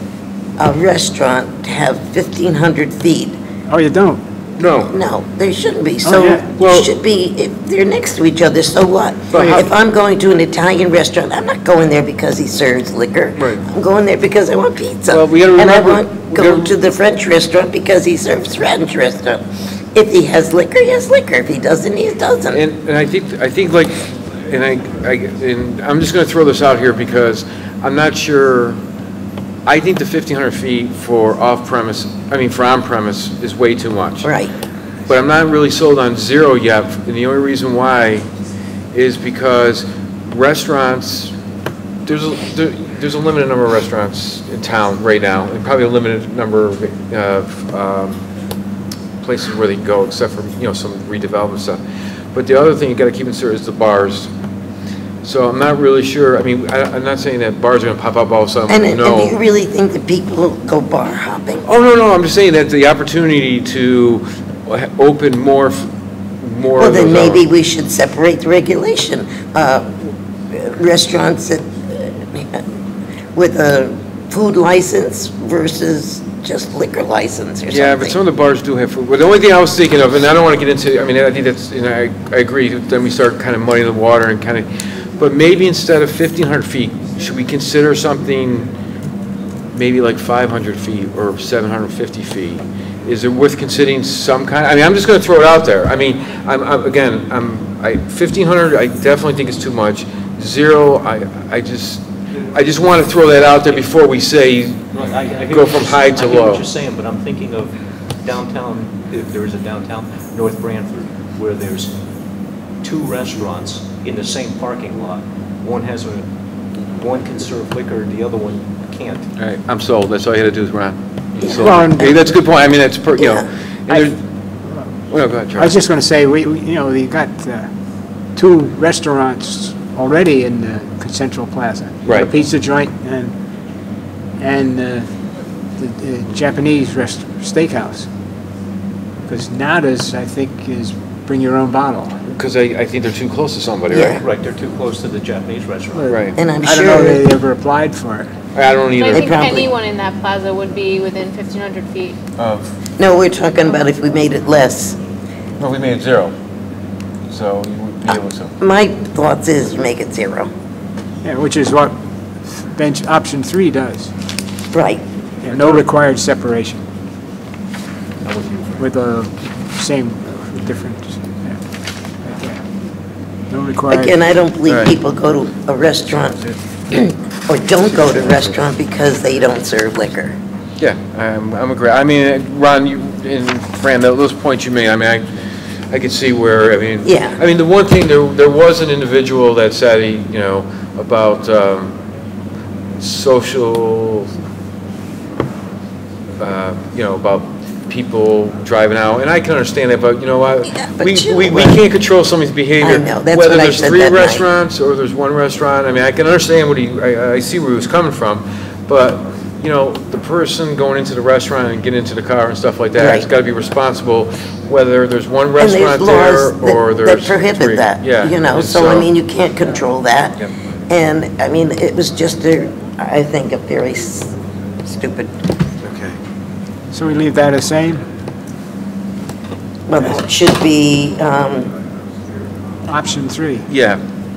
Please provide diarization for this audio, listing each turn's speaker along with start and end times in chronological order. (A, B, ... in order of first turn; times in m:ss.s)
0:00.6-0:03.4 A
0:03.7-0:04.2 B
0:04.6-0:04.9 C
0:04.9-0:19.4 A
0:06.0-0:06.5 B
0:06.6-0:06.9 C
0:09.3-0:09.7 C
0:15.1-0:16.7 C
0:19.9-0:22.6 A
0:22.5-0:28.8 C
0:29.7-0:34.3 C
0:34.2-0:34.5 A
0:35.1-0:38.2 C
0:38.9-0:41.3 C
0:42.1-0:48.2 C
0:49.2-0:51.8 C
0:52.3-0:54.3 C
0:55.2-0:59.3 C
0:58.7-1:01.7 A
1:01.6-1:05.8 C
1:06.4-1:07.4 C
1:06.8-1:12.6 A
1:13.3-1:18.2 A
1:17.7-1:28.7 C
1:29.7-1:46.6 C
1:44.9-1:51.9 D
1:52.8-1:59.3 D
1:59.4-2:04.2 C
2:01.5-2:02.4 B
2:03.2-2:03.4 A
2:05.1-2:05.8 C
2:05.5-2:07.7 B
2:08.4-2:13.3 B
2:14.4-2:15.1 B
2:15.8-2:18.1 B
2:19.3-2:22.2 B
2:22.3-2:24.2 C
2:23.9-2:24.2 A
2:24.1-2:26.2 D
2:25.9-2:28.3 B
2:26.0-2:26.4 C
2:26.4-2:27.2 A
2:28.5-2:29.3 C
2:29.0-2:32.2 E
2:29.1-2:29.7 A
2:32.4-2:32.7 C
2:33.0-2:35.0 A
2:35.6-2:36.3 C
2:37.3-2:38.5 C
2:38.1-2:40.5 A
2:41.2-2:44.1 B
2:44.7-2:45.0 A
2:45.4-2:46.8 B
2:45.5-2:45.9 D
2:48.2-2:48.9 D
2:48.8-2:51.6 B
2:52.2-2:52.6 B
2:53.5-2:54.2 B
2:53.9-3:00.4 A
2:54.7-2:54.9 C
3:00.8-3:05.2 C
3:05.9-3:12.0 C
3:07.0-3:07.4 A
3:13.0-3:14.3 C
3:16.4-3:39.1 C
3:20.7-3:21.8 A
3:22.8-3:24.4 A
3:33.0-3:33.3 A
3:35.6-3:45.3 A
3:45.8-3:46.2 C
3:46.9-3:48.0 B
3:49.9-3:51.7 A
3:52.9-3:53.7 B
3:53.7-3:54.0 C